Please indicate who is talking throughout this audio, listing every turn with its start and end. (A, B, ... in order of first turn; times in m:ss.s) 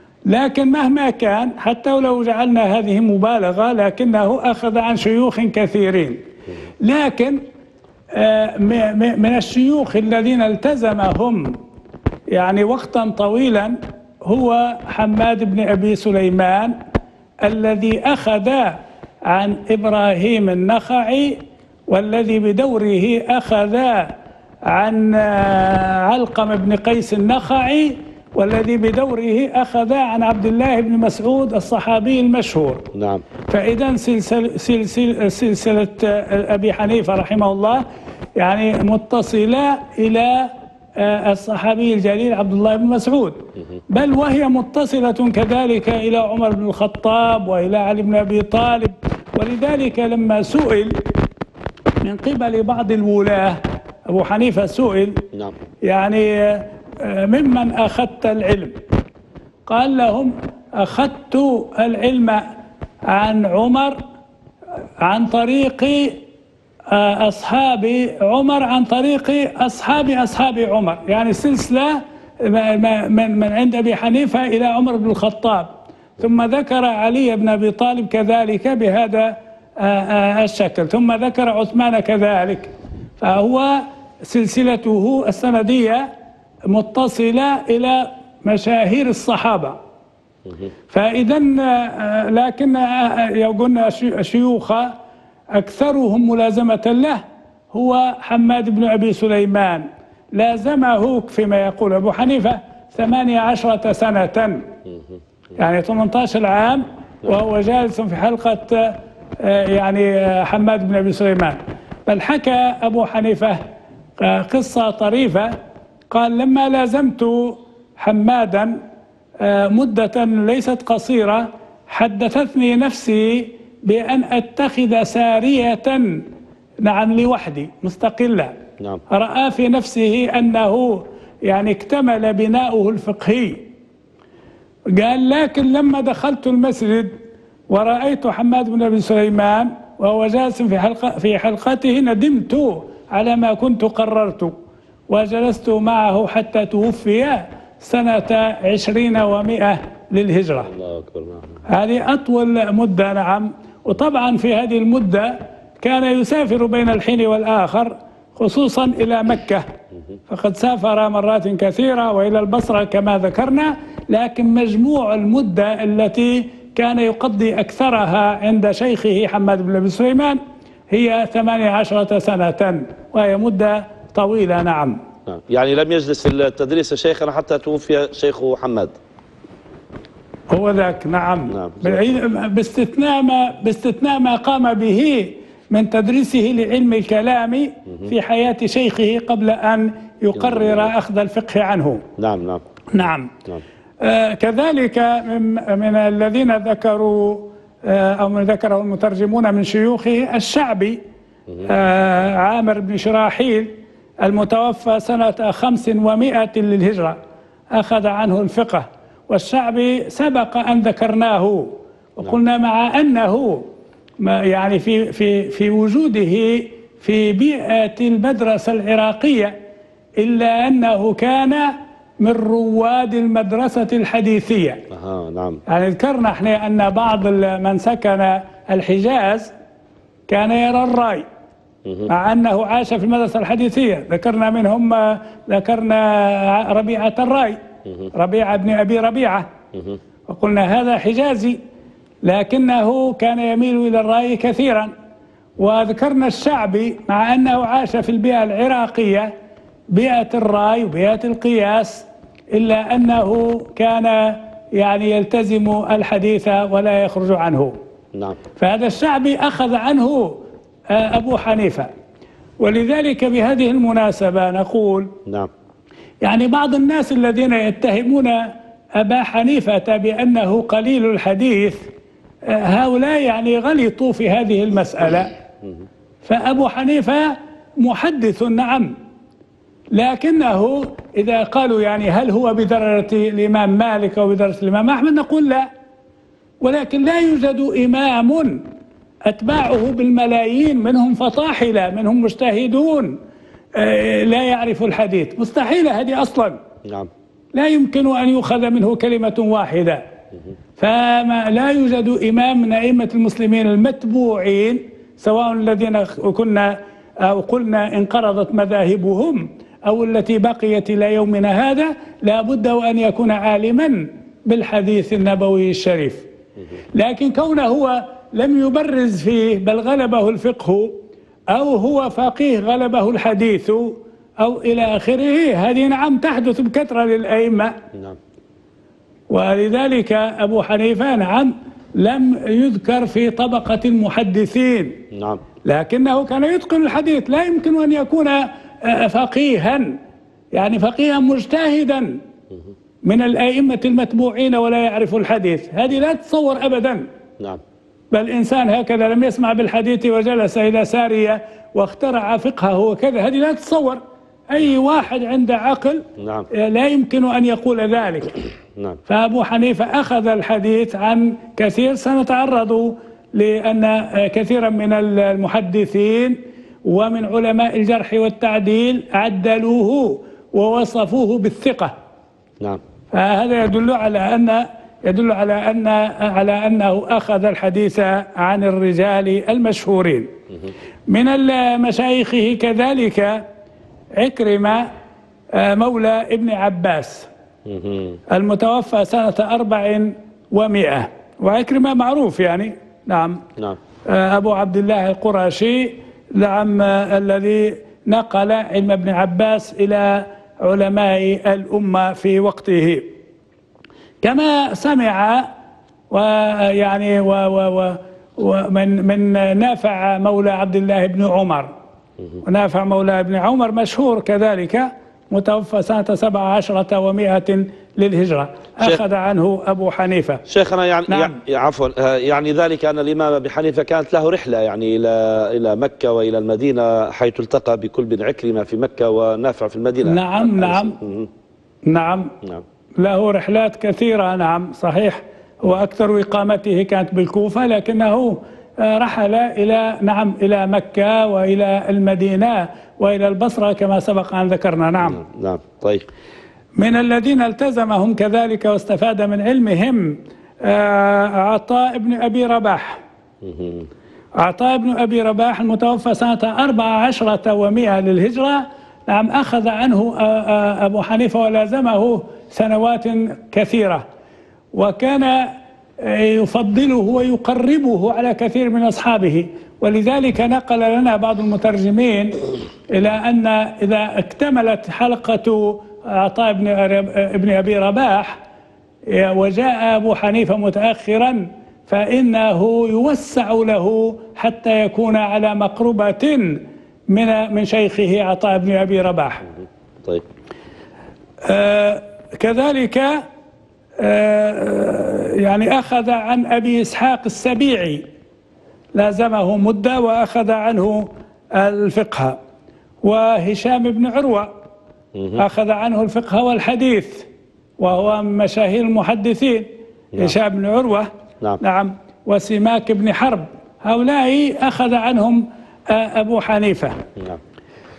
0:00.3-0:06.2 A
0:06.8-0:07.4 A
0:08.1-0:11.6 A
0:12.3-0:16.7 A
0:17.4-0:21.4 A
0:21.9-0:24.1 A
0:24.7-0:32.8 A
0:32.9-0:33.2 B
0:33.5-0:37.8 A
0:38.4-0:51.0 A
0:52.0-0:55.2 A
0:55.8-0:58.8 A
0:59.7-1:02.4 A
1:03.1-1:04.0 A
1:05.0-1:06.2 A
1:06.9-1:26.1 A
1:26.7-1:29.8 A
1:30.9-1:34.9 A
1:35.5-1:44.6 A
1:45.6-1:53.6 A
1:54.2-1:55.5 A
1:56.1-1:58.8 A
1:59.4-2:06.2 A
2:06.8-2:08.5 A
2:09.1-2:13.6 A
2:14.9-2:17.1 A
2:17.7-2:24.5 A
2:25.1-2:30.7 A
2:30.6-2:31.6 B
2:31.7-2:39.7 A
2:40.3-2:50.4 A
2:50.9-2:55.0 A
2:55.3-2:59.0 B
3:00.5-3:12.0 A
3:01.5-3:02.1 B
3:10.4-3:10.9 B
3:12.2-3:12.6 B
3:12.9-3:13.3 A
3:14.0-3:21.0 A
3:21.6-3:23.7 A
3:24.2-3:27.2 A
3:27.7-3:33.6 A
3:34.2-3:39.6 A
3:40.2-3:44.8 A
3:44.9-3:45.6 B
3:45.7-3:49.5 A
3:50.3-3:51.2 A
3:52.1-3:57.6 A
3:58.1-3:59.5 A
3:59.7-4:00.0 B
4:00.3-4:01.6 A
4:02.2-4:04.9 A
4:05.6-4:09.3 A
4:09.9-4:17.8 A
4:18.2-4:18.4 B
4:18.6-4:20.4 A
4:20.9-4:21.9 A
4:22.6-4:25.1 A
4:26.2-4:31.8 A
4:32.5-4:35.3 A
4:36.2-4:38.9 A
4:39.9-4:45.7 A
4:46.6-4:48.6 A
4:49.3-4:53.2 A
4:53.8-4:56.6 A
4:56.8-4:57.1 B
4:57.5-5:00.0 A
5:00.8-5:16.2 A
5:17.0-5:20.9 A
5:21.5-5:27.8 A
5:27.9-5:28.2 B
5:29.3-5:35.0 A
5:35.1-5:35.4 B
5:35.6-5:40.0 A
5:40.5-5:42.2 A
5:43.0-5:47.1 A
5:48.1-5:58.4 A
5:56.2-5:56.5 B
5:59.1-6:11.9 A
6:13.1-6:20.3 A
6:21.1-6:23.4 A
6:24.2-6:24.9 A
6:25.5-6:27.3 A
6:27.7-6:28.2 B
6:28.3-6:33.4 A
6:34.1-6:43.1 A
6:44.2-6:45.5 A
6:46.1-6:51.7 A
6:52.4-7:00.4 A
7:00.5-7:11.3 B
7:01.1-7:01.4 A
7:10.0-7:11.0 A
7:11.9-7:12.4 A
7:13.0-7:25.2 A
7:25.0-7:26.1 B
7:26.8-7:33.0 A
7:33.4-7:33.9 B
7:34.4-7:44.0 A
7:44.8-7:45.5 A
7:46.0-7:52.3 A
7:52.9-7:58.4 A
7:59.1-8:09.5 A
8:11.4-8:13.2 A
8:14.0-8:18.0 A
8:19.0-8:22.4 A
8:23.0-8:24.5 A
8:25.2-8:25.4 B
8:25.4-8:27.3 A
8:27.8-8:31.1 A
8:31.6-8:37.0 A